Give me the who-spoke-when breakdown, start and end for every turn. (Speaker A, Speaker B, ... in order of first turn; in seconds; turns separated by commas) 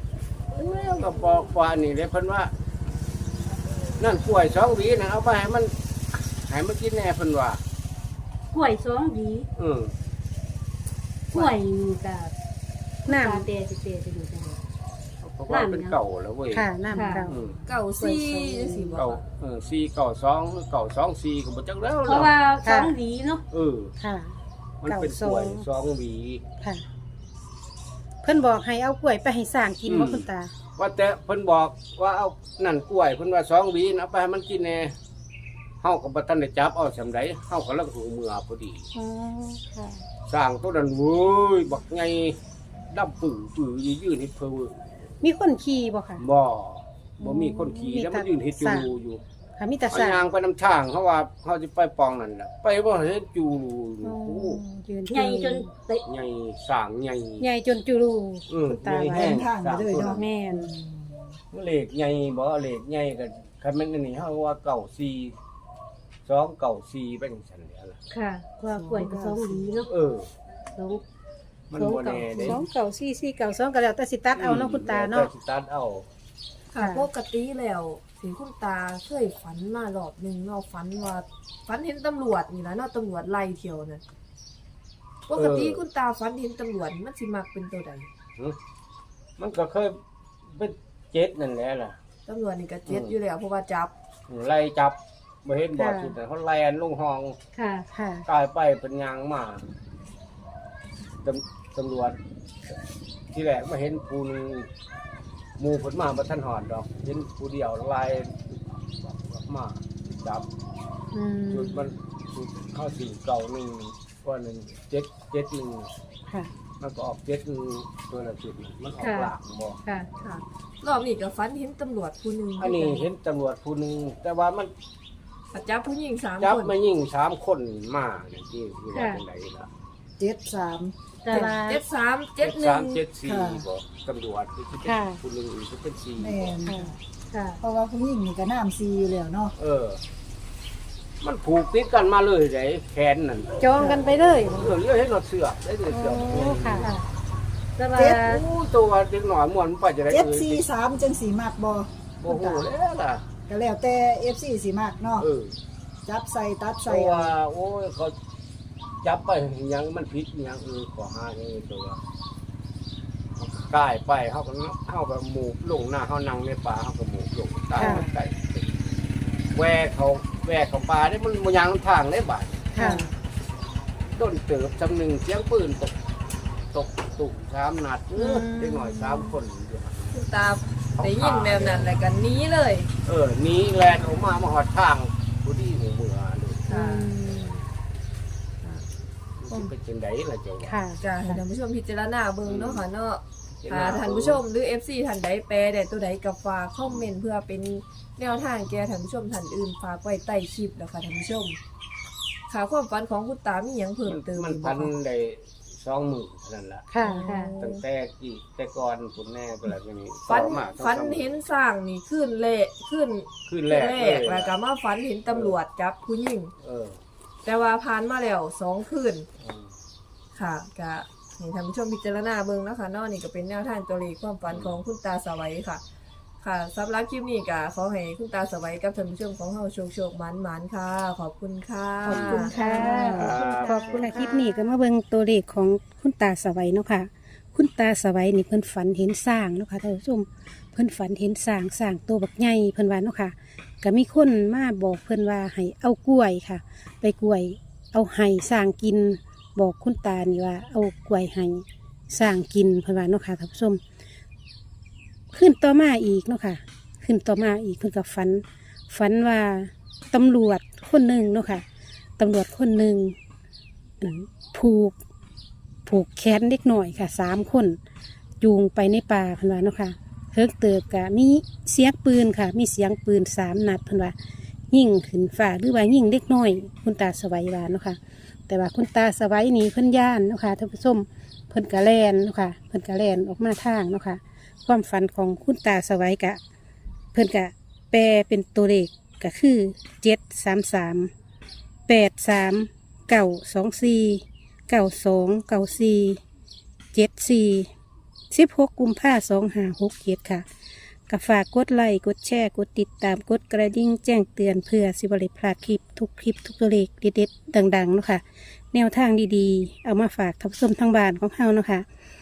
Speaker A: 0.5-2.5, Speaker A: 4.0-7.6, Speaker B: 8.5-9.5, Speaker A: 9.6-9.9, Speaker B: 11.3-12.3, Speaker B: 13.0-14.6, Speaker C: 13.1-13.5, Speaker A: 15.2-16.6, Speaker B: 15.5-16.0, Speaker C: 16.5-17.4, Speaker B: 16.9-17.2, Speaker A: 17.2-17.6, Speaker D: 17.7-19.2, Speaker C: 18.0-19.0, Speaker A: 18.9-22.3, Speaker B: 22.1-23.4, Speaker C: 22.6-23.0, Speaker A: 23.5-23.9, Speaker C: 24.0-25.6, Speaker A: 24.8-26.4, Speaker C: 28.2-30.5, Speaker A: 29.9-34.9, Speaker A: 35.8-38.9, Speaker C: 38.9-40.0, Speaker A: 40.2-42.4, Speaker A: 42.9-44.8, Speaker C: 45.2-46.2, Speaker A: 46.2-49.2, Speaker C: 47.2-48.9, Speaker C: 49.6-50.2, Speaker A: 49.9-54.6, Speaker C: 54.0-55.7, Speaker B: 55.1-56.0, Speaker A: 56.0-57.5, Speaker C: 57.4-59.4, Speaker A: 58.5-60.2, Speaker E: 59.1-61.1, Speaker C: 60.0-60.7, Speaker A: 61.5-65.3, Speaker A: 66.2-68.0, Speaker B: 68.1-69.9, Speaker C: 68.6-69.5, Speaker A: 69.8-70.3, Speaker B: 70.7-71.0, Speaker A: 71.7-72.6, Speaker C: 71.8-75.3, Speaker A: 74.3-76.0, Speaker D: 76.7-84.0, Speaker C: 76.8-77.1, Speaker D: 85.3-88.1, Speaker A: 85.3-85.8, Speaker A: 89.4-90.0, Speaker A: 90.5-92.0, Speaker D: 92.2-93.9, Speaker A: 92.8-93.1, Speaker A: 94.3-97.4, Speaker C: 95.8-96.2, Speaker B: 97.5-97.8, Speaker C: 97.9-98.2, Speaker A: 98.2-99.6, Speaker A: 101.2-102.2, Speaker A: 103.3-104.7, Speaker A: 105.6-110.5, Speaker C: 111.1-111.8, Speaker A: 111.5-115.9, Speaker A: 116.8-119.8, Speaker B: 119.0-119.3, Speaker D: 120.2-123.1, Speaker A: 122.6-124.7, Speaker D: 125.5-126.8, Speaker A: 126.4-129.7, Speaker B: 128.9-129.2, Speaker E: 130.2-131.3, Speaker B: 131.2-131.5, Speaker C: 131.3-131.8, Speaker D: 131.7-133.1, Speaker A: 132.4-136.7, Speaker E: 133.2-133.7, Speaker C: 134.8-135.2, Speaker E: 136.2-136.9, Speaker C: 136.6-136.9, Speaker B: 137.3-137.6, Speaker E: 137.6-139.5, Speaker A: 139.6-140.0, Speaker A: 141.2-143.6, Speaker C: 143.6-144.7, Speaker A: 144.5-146.9, Speaker C: 145.9-147.1, Speaker B: 147.8-148.4, Speaker E: 147.9-148.2, Speaker A: 148.2-150.6, Speaker E: 150.1-152.7, Speaker A: 152.2-153.3, Speaker E: 153.5-155.3, Speaker A: 155.2-155.6, Speaker E: 156.1-157.3, Speaker A: 156.8-158.1, Speaker A: 159.0-162.0, Speaker A: 163.4-168.7, Speaker C: 167.8-168.1, Speaker A: 169.5-172.8, Speaker C: 172.7-173.1, Speaker A: 174.2-176.0, Speaker A: 176.7-180.2, Speaker C: 178.2-179.3, Speaker D: 180.1-182.9, Speaker A: 181.0-181.9, Speaker A: 183.0-187.6, Speaker D: 186.7-187.1, Speaker C: 186.7-187.6, Speaker A: 189.4-190.8, Speaker C: 190.6-191.4, Speaker D: 190.9-201.6, Speaker A: 192.4-192.8, Speaker A: 193.6-194.4, Speaker D: 202.5-204.9, Speaker A: 204.1-206.9, Speaker C: 206.9-207.3, Speaker D: 207.0-207.8, Speaker B: 207.2-207.5, Speaker A: 207.6-211.3, Speaker D: 210.3-216.5, Speaker A: 213.5-214.5, Speaker A: 215.3-215.6, Speaker A: 216.6-217.0, Speaker D: 217.4-219.3, Speaker A: 219.4-219.7, Speaker D: 220.3-225.8, Speaker A: 224.5-224.8, Speaker D: 226.4-233.7, Speaker C: 232.0-253.8, Speaker A: 232.1-234.4, Speaker B: 232.5-233.1, Speaker C: 255.3-261.6, Speaker C: 262.2-263.1, Speaker C: 264.0-264.9, Speaker C: 265.9-267.8, Speaker C: 268.4-274.1, Speaker C: 274.7-286.4, Speaker C: 287.1-291.1, Speaker C: 291.9-296.2, Speaker C: 296.9-297.7, Speaker C: 298.3-300.4, Speaker C: 301.1-311.8